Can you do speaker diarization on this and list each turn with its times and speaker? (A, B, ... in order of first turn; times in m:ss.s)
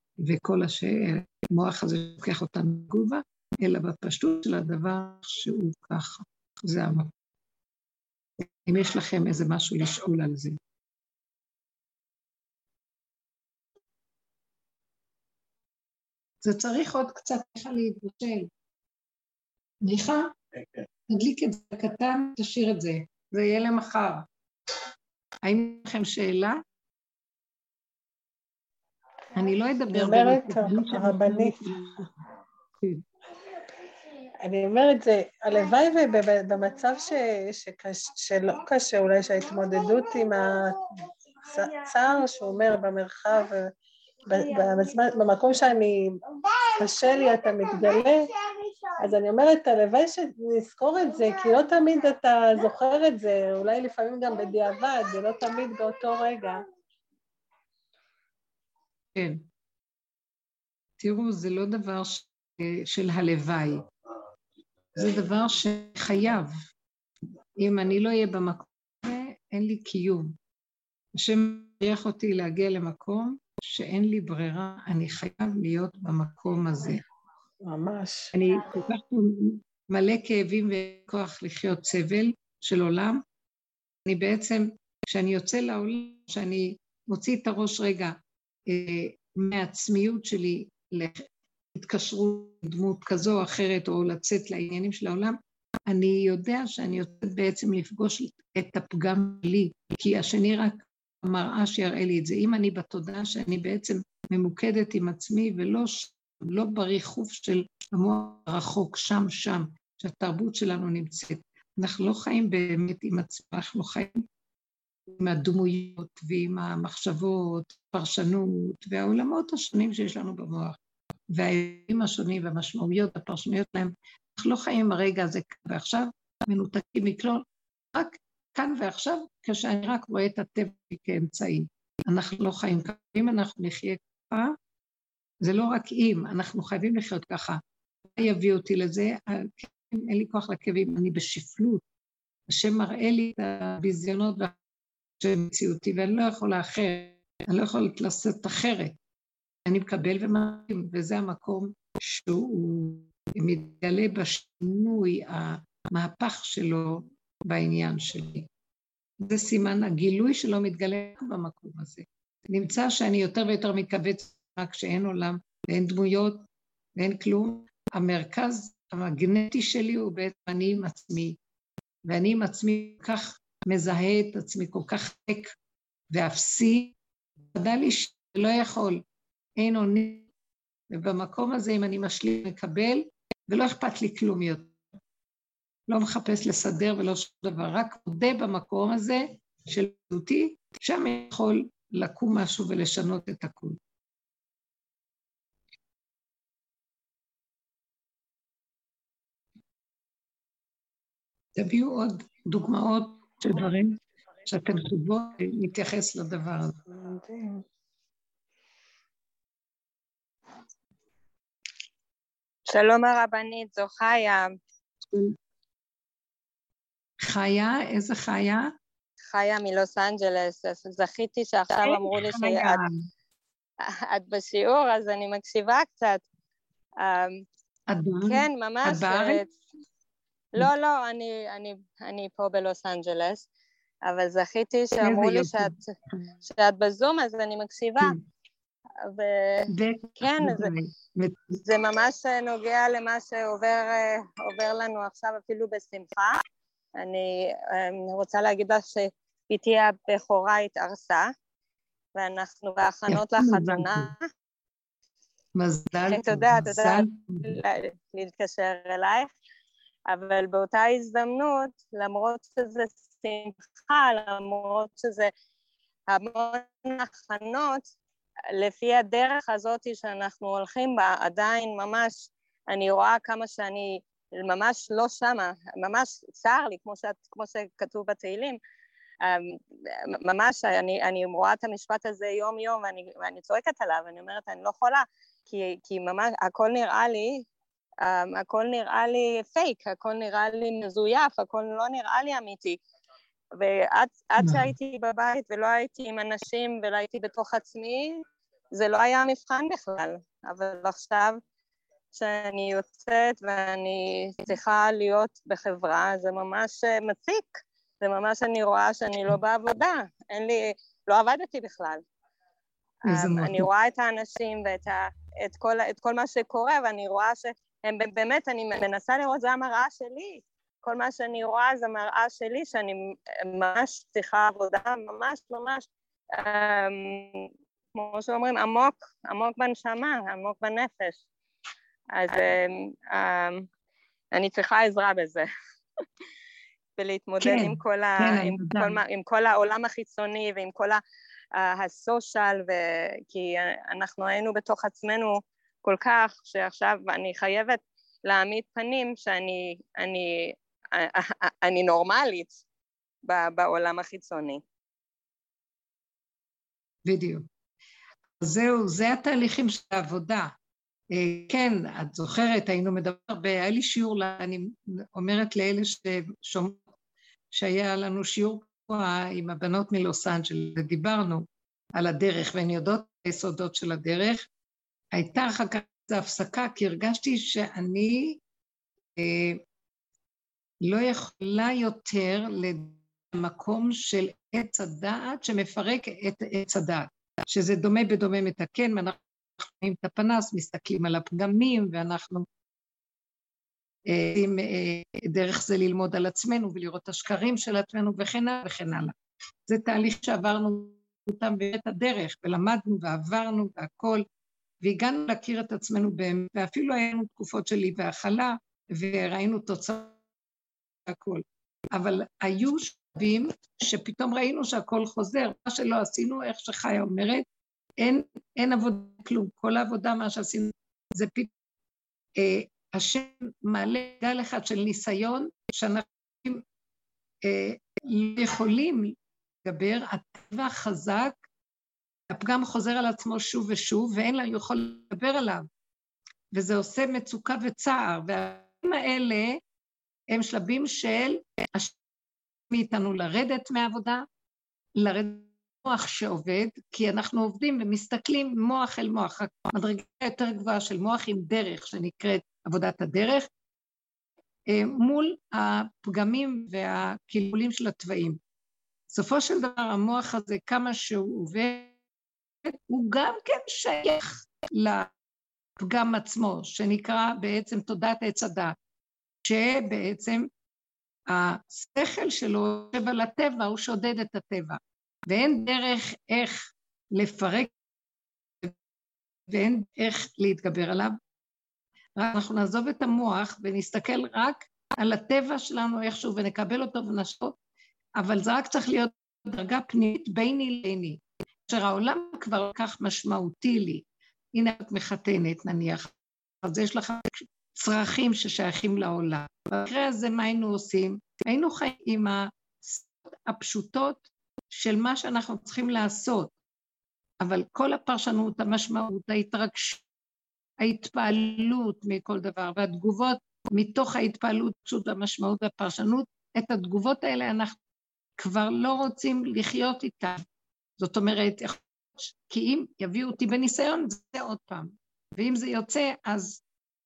0:00.2-0:07.1 A
0:08.4-0:10.6 A
0:16.4-0:18.5 A
0:19.8-0:20.4 A
0:21.1-0:24.3 A
0:25.4-0:26.6 A
0:29.4-0:32.1 A
0:29.9-0:31.6 B
0:34.4-0:40.8 B
0:41.4-0:43.7 B
0:44.3-0:46.2 B
0:46.8-0:48.3 B
0:49.0-0:56.6 B
0:59.1-0:59.4 A
1:01.0-1:03.8 A
1:05.0-1:06.6 A
1:07.6-1:10.3 A
1:11.2-1:17.0 A
1:17.6-1:18.3 B
1:18.3-1:23.2 A
1:24.0-1:28.2 A
1:28.7-1:54.2 A
1:55.1-2:00.8 A
2:01.3-2:14.5 A
2:15.4-2:17.6 A
2:18.2-2:21.8 A
2:22.5-2:24.5 A
2:25.2-2:29.0 A
2:29.7-2:38.5 A
2:39.2-2:46.4 A
2:47.0-2:51.4 A
2:52.1-2:55.5 A
2:56.1-2:56.9 A
2:57.5-2:59.0 A
2:59.6-3:00.3 A
3:00.9-3:04.8 A
3:05.9-3:13.8 A
3:21.6-3:26.8 A
3:26.9-3:27.6 B
3:32.7-3:34.5 C
3:37.2-3:38.7 A
3:39.3-3:42.8 C
3:41.8-3:43.0 A
3:43.8-3:46.2 C
3:47.0-3:47.4 C
3:47.9-3:49.4 A
3:48.2-3:49.4 C
3:50.5-3:53.4 C
3:54.0-3:55.7 C
3:55.0-3:56.2 A
3:56.4-3:58.1 C
3:59.0-3:59.7 C
3:59.7-4:01.6 A
4:00.2-4:00.7 C
4:01.6-4:06.4 C
4:07.0-4:11.3 C
4:12.2-4:14.2 C
4:13.1-4:14.1 A
4:15.6-4:17.6 A
4:16.1-4:19.3 C
4:20.1-4:25.3 C
4:26.1-4:27.8 C
4:28.5-4:38.6 C
4:39.2-4:47.5 C
4:48.0-4:52.8 C
4:53.5-5:01.4 C
4:54.4-4:54.7 A
5:02.1-5:12.0 C
5:13.0-5:31.2 C
5:13.0-5:13.7 A
5:32.2-5:33.7 C
5:34.3-5:35.5 C
5:37.0-5:41.0 C
5:37.4-5:39.0 A
5:41.6-5:52.6 C
5:53.2-5:54.6 C
5:57.0-5:57.4 A
5:58.4-6:00.5 A
6:01.1-6:06.8 A
6:07.5-6:14.4 A
6:15.1-6:18.4 A
6:19.2-6:19.6 A
6:20.8-6:32.5 A
6:34.1-6:39.2 A
6:39.7-6:44.2 A
6:44.8-6:50.2 A
6:51.0-6:57.4 A
6:58.0-7:01.5 A
7:02.4-7:06.6 A
7:07.4-7:11.4 A
7:12.3-7:15.7 A
7:16.5-7:19.6 A
7:20.3-7:22.0 A
7:22.7-7:24.2 A
7:25.0-7:33.5 A
7:34.7-7:38.4 A
7:39.1-7:41.9 A
7:42.6-7:45.1 A
7:45.8-7:48.8 A
7:49.4-7:50.5 A
7:51.3-7:57.7 A
7:59.5-8:01.2 A
8:02.2-8:07.6 A
8:08.2-8:26.5 A
8:27.4-8:30.0 A
8:30.8-8:37.8 A
8:38.4-8:40.4 A
8:41.0-8:46.6 A